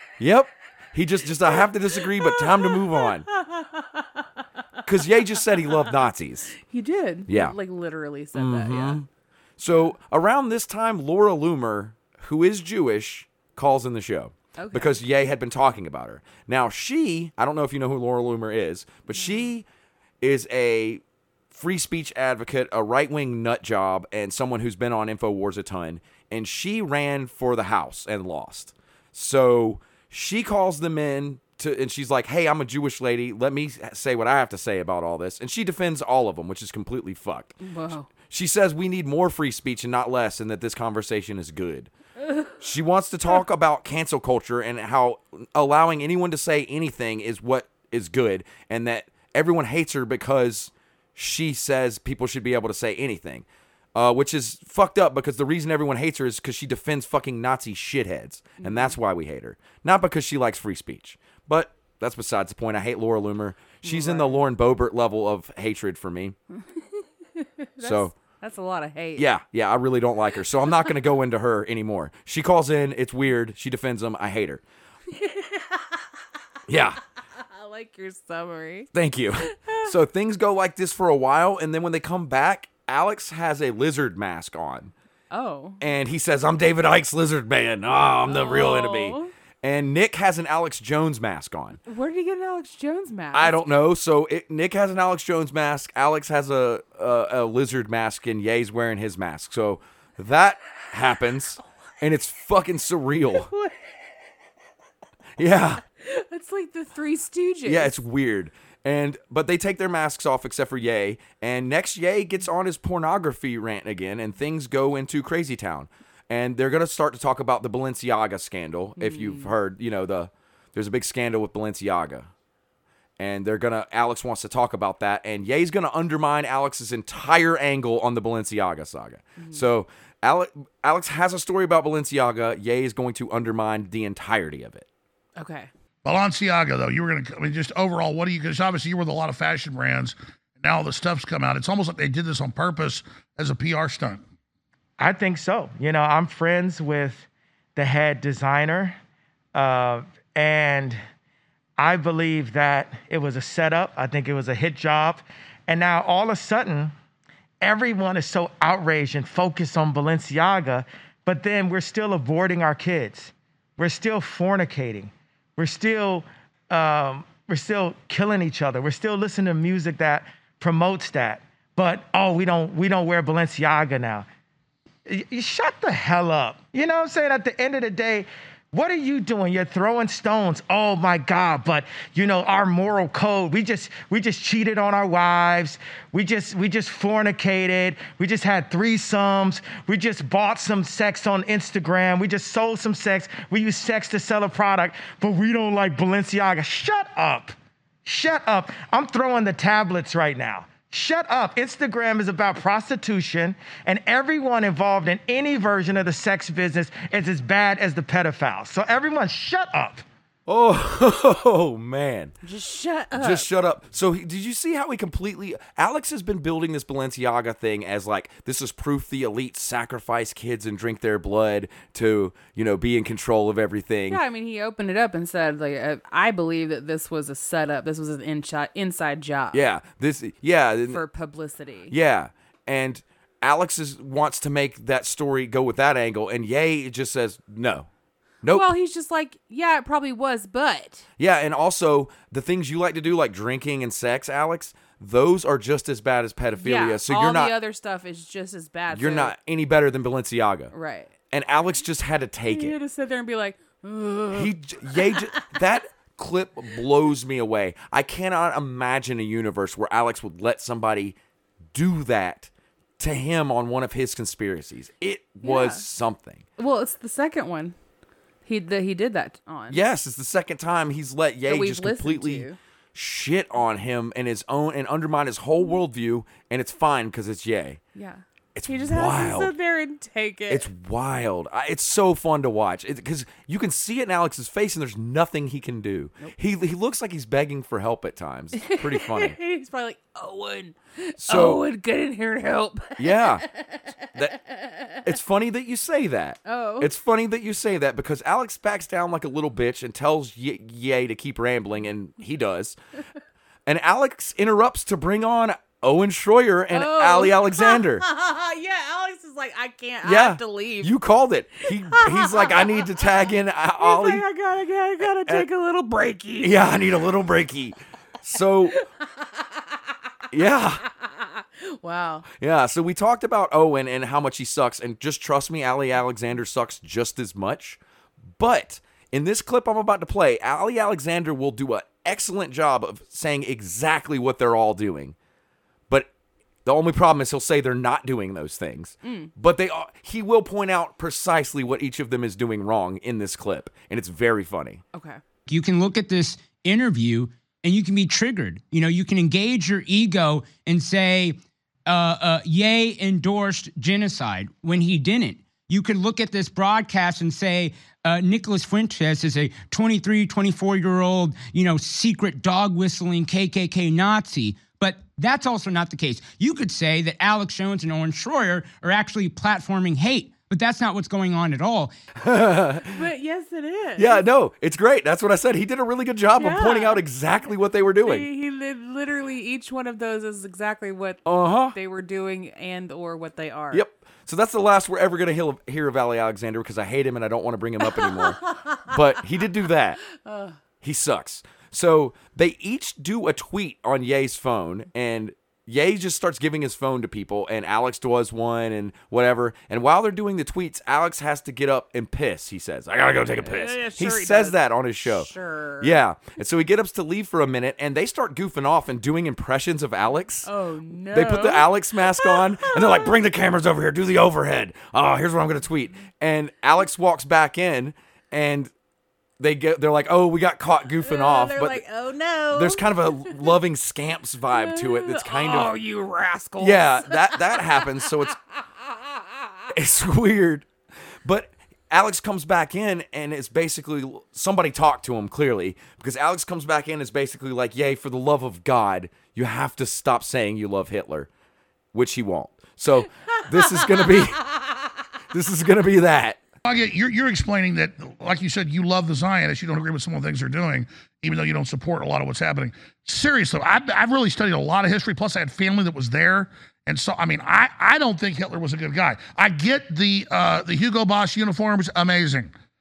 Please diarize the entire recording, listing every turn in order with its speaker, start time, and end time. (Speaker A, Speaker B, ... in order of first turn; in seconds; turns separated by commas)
Speaker A: 0.2-3.3, Speaker B: 1.5-4.2, Speaker A: 4.9-6.6, Speaker B: 6.6-9.0, Speaker A: 7.3-7.6, Speaker A: 8.3-9.1, Speaker A: 9.6-19.6, Speaker B: 14.6-15.0, Speaker B: 19.2-19.5, Speaker A: 20.2-21.0, Speaker A: 21.5-37.6, Speaker B: 37.6-38.1, Speaker A: 38.3-41.9, Speaker A: 42.6-66.4, Speaker B: 58.6-59.0, Speaker B: 63.8-64.4, Speaker B: 67.4-69.3, Speaker A: 67.8-68.1, Speaker A: 69.2-74.6, Speaker B: 75.1-76.0, Speaker A: 76.7-77.0, Speaker B: 77.4-78.9, Speaker A: 78.9-84.9, Speaker B: 79.4-79.9, Speaker B: 85.3-85.8, Speaker A: 85.8-91.8, Speaker B: 88.3-89.3, Speaker B: 91.9-93.6, Speaker A: 93.3-103.5, Speaker B: 103.5-103.8, Speaker A: 105.4-105.8, Speaker B: 106.0-107.9, Speaker A: 107.7-122.3, Speaker B: 119.0-119.5, Speaker A: 123.2-134.9, Speaker B: 129.4-129.7, Speaker B: 135.4-135.7, Speaker C: 136.0-144.2, Speaker D: 145.0-149.0, Speaker D: 149.5-151.0, Speaker D: 151.8-156.9, Speaker D: 157.6-174.3, Speaker D: 175.1-210.1, Speaker A: 210.5-212.3, Speaker B: 212.4-213.5, Speaker A: 213.2-224.2, Speaker B: 224.1-229.6, Speaker A: 229.5-231.0, Speaker B: 230.9-231.9, Speaker A: 231.9-237.9, Speaker A: 238.4-238.7, Speaker B: 238.5-241.1, Speaker A: 241.2-247.5, Speaker B: 246.6-249.3, Speaker A: 248.9-250.7, Speaker B: 250.7-251.1, Speaker A: 251.3-252.8, Speaker B: 252.5-255.6, Speaker A: 254.3-261.2, Speaker A: 261.7-266.4, Speaker B: 265.4-265.8, Speaker B: 266.6-267.8, Speaker B: 268.4-269.8, Speaker A: 269.7-277.8, Speaker B: 271.5-272.6, Speaker B: 277.9-280.7, Speaker A: 278.6-279.5, Speaker A: 280.5-289.4, Speaker B: 288.6-295.0, Speaker A: 291.2-291.6, Speaker A: 293.0-293.5, Speaker A: 294.1-294.4, Speaker A: 295.0-302.8, Speaker B: 296.5-296.9, Speaker A: 303.7-308.1, Speaker B: 306.7-310.9, Speaker A: 310.0-314.2, Speaker B: 311.6-313.3, Speaker B: 313.8-316.7, Speaker A: 316.4-318.8, Speaker B: 318.8-319.4, Speaker A: 320.3-320.8, Speaker B: 320.8-322.3, Speaker A: 322.3-327.8, Speaker A: 328.4-335.1, Speaker A: 336.6-344.8, Speaker B: 339.0-339.3, Speaker B: 344.9-345.2, Speaker E: 345.5-371.9, Speaker A: 372.2-373.0, Speaker B: 372.9-374.2, Speaker A: 374.0-378.3, Speaker B: 376.4-377.0, Speaker B: 378.0-383.8, Speaker A: 381.3-381.8, Speaker A: 383.7-390.0, Speaker B: 387.8-388.9, Speaker B: 390.1-390.6, Speaker A: 390.8-405.3, Speaker B: 403.4-406.0, Speaker A: 405.8-410.5, Speaker B: 410.4-413.1, Speaker A: 411.1-418.7, Speaker A: 419.4-421.8, Speaker B: 421.0-423.5, Speaker A: 422.5-425.7, Speaker B: 424.5-428.3, Speaker A: 426.6-428.4, Speaker A: 429.7-430.7, Speaker A: 431.2-441.3, Speaker A: 441.9-444.7, Speaker A: 445.3-446.4, Speaker C: 446.7-462.5